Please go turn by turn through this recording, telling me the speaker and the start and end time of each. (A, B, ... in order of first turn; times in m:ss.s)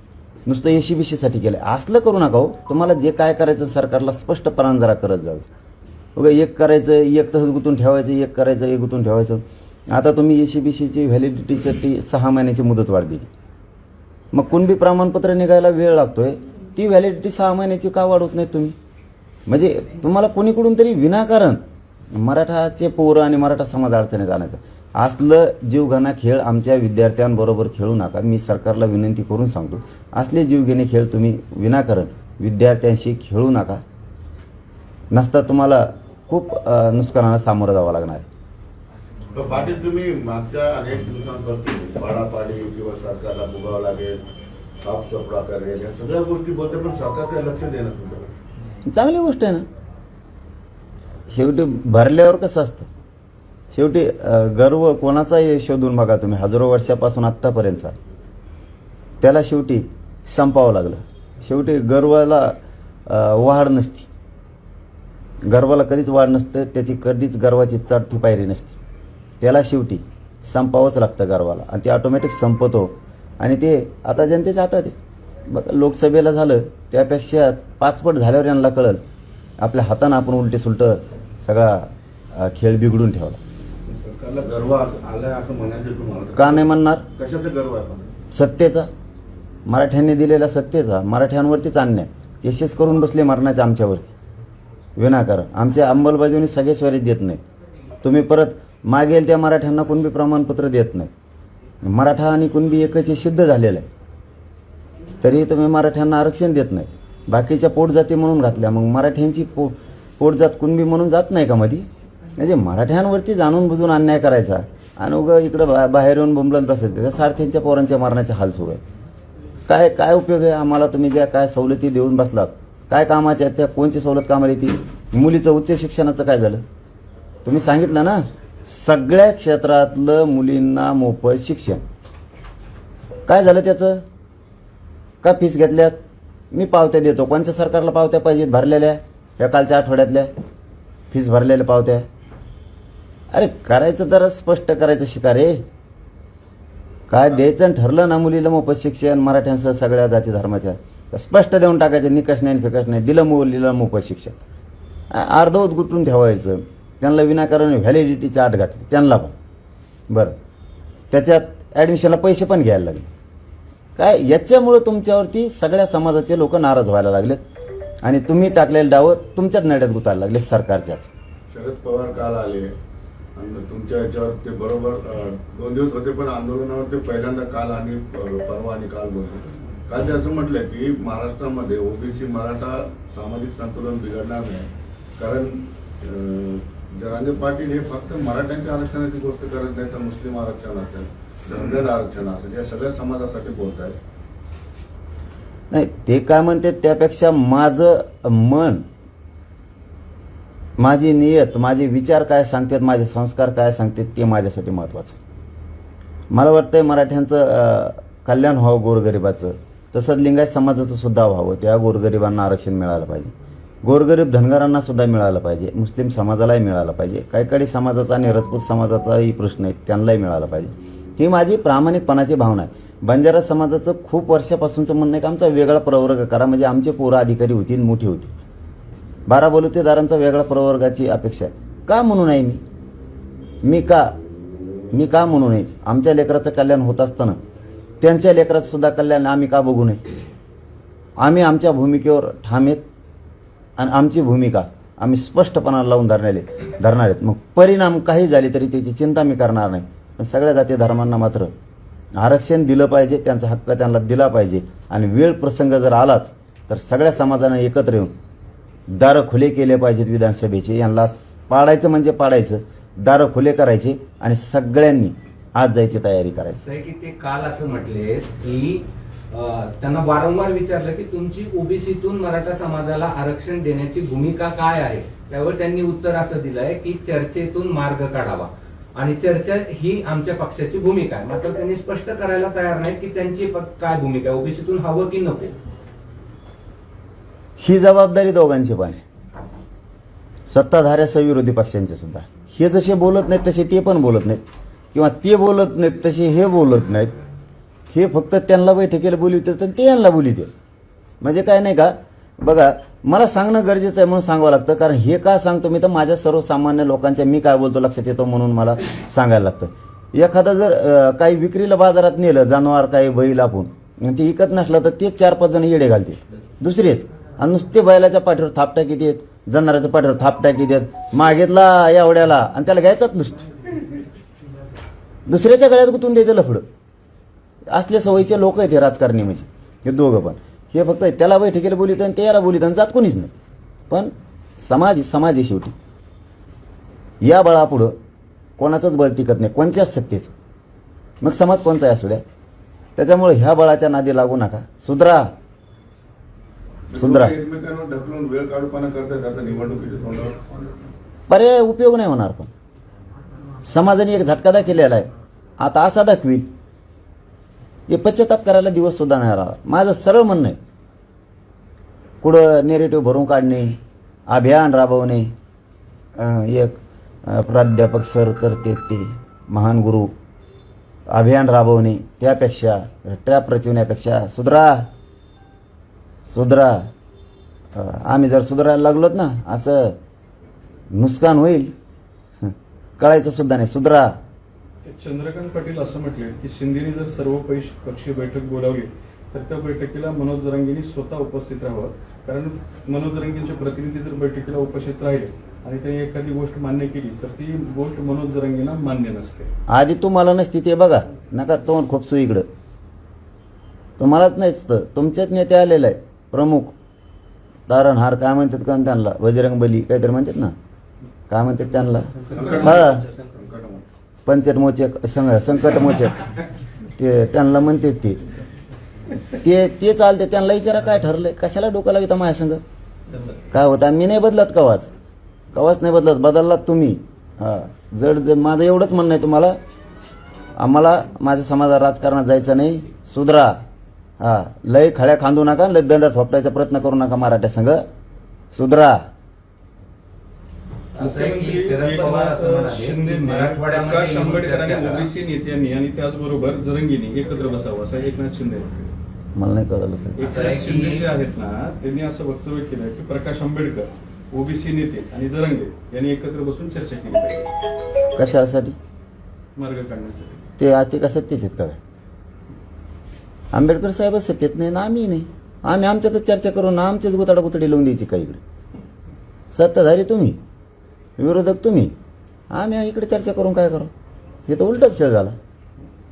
0:00.5-0:05.4 A
0:06.2-0:13.3 A
0:14.3-0:18.7 A
0:19.5-0:21.6 A
0:22.1-0:33.8 A
0:35.1-0:38.3 A
0:39.3-0:44.2 B
0:44.8-0:48.3 B
0:48.9-0:49.6 A
0:51.3-0:52.9 A
0:53.7-0:57.9 A
0:59.2-1:02.6 A
1:03.1-1:04.1 A
1:05.5-1:08.8 A
1:09.4-1:14.9 A
1:15.5-1:19.0 A
1:19.6-1:23.4 A
1:23.8-1:28.1 B
1:26.4-1:27.0 A
1:28.3-1:28.9 A
1:29.7-1:34.1 A
1:35.0-1:37.4 A
1:38.0-1:41.1 A
1:41.8-1:43.9 A
1:45.2-1:51.9 A
1:52.4-1:58.8 A
1:59.7-2:06.6 A
2:07.4-2:11.8 A
2:13.3-2:14.0 A
2:15.2-2:15.9 A
2:16.5-2:20.3 A
2:21.1-2:22.0 A
2:23.3-2:25.6 A
2:27.1-2:34.3 A
2:35.1-2:39.4 A
2:40.1-2:40.3 A
2:41.1-2:43.1 A
2:44.0-2:47.4 A
2:48.0-2:51.1 A
2:51.5-2:52.7 B
2:53.4-3:14.0 B
3:15.7-3:18.8 A
3:20.8-3:25.2 A
3:26.3-3:33.3 A
3:33.8-3:48.3 A
3:49.3-3:52.6 A
3:53.6-3:54.1 A
3:54.9-3:57.4 A
3:58.0-4:00.0 A
4:01.2-4:02.8 A
4:03.8-4:11.5 A
4:12.2-4:18.1 A
4:18.9-4:26.6 A
4:26.6-4:45.6 C
4:47.6-4:49.0 A
4:50.5-4:54.4 A
4:54.9-4:57.1 A
4:57.9-5:00.5 A
5:01.2-5:23.6 A
5:25.3-5:26.6 A
5:27.7-5:33.3 A
5:33.9-5:35.7 A
5:37.2-5:37.9 A
5:38.6-5:40.3 A
5:41.2-5:42.2 A
5:43.0-5:45.3 A
5:46.9-5:50.7 B
5:47.0-5:47.3 A
5:51.3-5:52.5 A
5:53.7-5:55.1 A
5:55.6-5:56.5 A
5:57.9-6:00.6 A
6:02.2-6:03.8 A
6:04.3-6:05.3 A
6:06.2-6:10.1 A
6:11.1-6:14.9 A
6:16.3-6:16.9 A
6:17.7-6:20.0 A
6:20.9-6:21.7 A
6:22.4-6:24.1 A
6:24.8-6:39.5 D
6:39.7-6:42.4 A
6:44.0-6:46.7 A
6:47.7-6:50.5 A
6:51.3-6:53.0 A
6:52.3-6:53.8 B
6:54.2-6:56.3 A
6:57.0-6:58.2 A
6:59.3-7:02.6 A
7:03.5-7:04.9 A
7:05.5-7:09.6 A
7:10.6-7:13.6 A
7:14.2-7:17.8 A
7:18.5-7:19.0 A
7:20.9-7:25.1 C
7:21.0-7:28.9 D
7:29.4-7:30.4 A
7:30.2-7:37.5 D
7:30.2-7:31.1 C
7:38.1-7:38.8 A
7:39.6-7:40.4 D
7:40.6-7:41.8 A
7:43.5-7:48.4 A
7:49.5-7:50.4 A
7:51.2-7:51.9 A
7:52.5-7:53.9 A
7:54.5-7:55.4 A